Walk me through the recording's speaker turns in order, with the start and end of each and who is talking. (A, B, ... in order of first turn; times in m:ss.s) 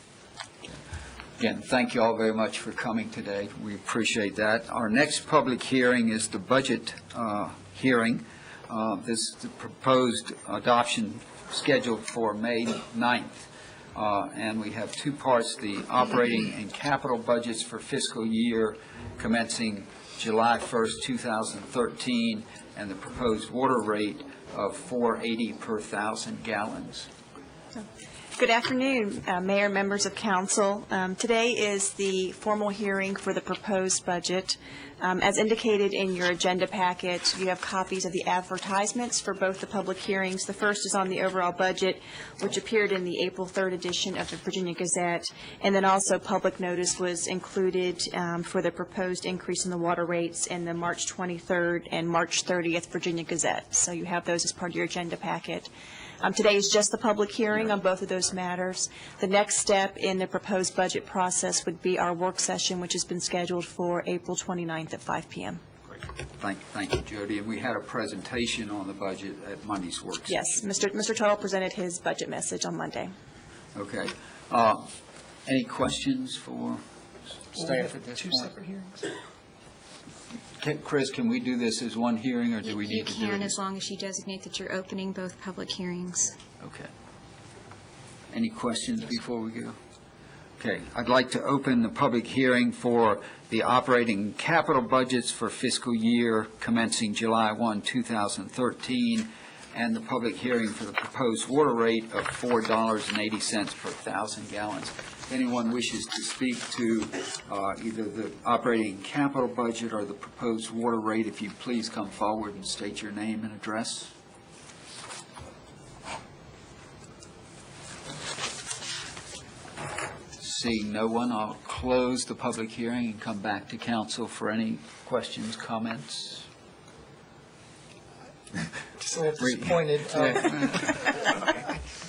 0:01.4-0:27.1 A
0:28.4-1:05.6 B
1:05.9-1:10.5 A
1:10.3-1:13.1 B
1:13.7-1:14.9 A
1:15.4-1:16.8 A
1:17.5-1:18.5 A
1:17.5-1:19.0 C
1:20.6-1:23.6 A
1:22.6-1:26.3 D
1:26.6-1:26.9 A
1:28.3-1:29.8 A
1:30.6-1:54.1 A
2:00.4-2:06.4 A
2:09.0-2:10.9 C
2:09.4-2:10.9 A
2:11.5-2:11.8 C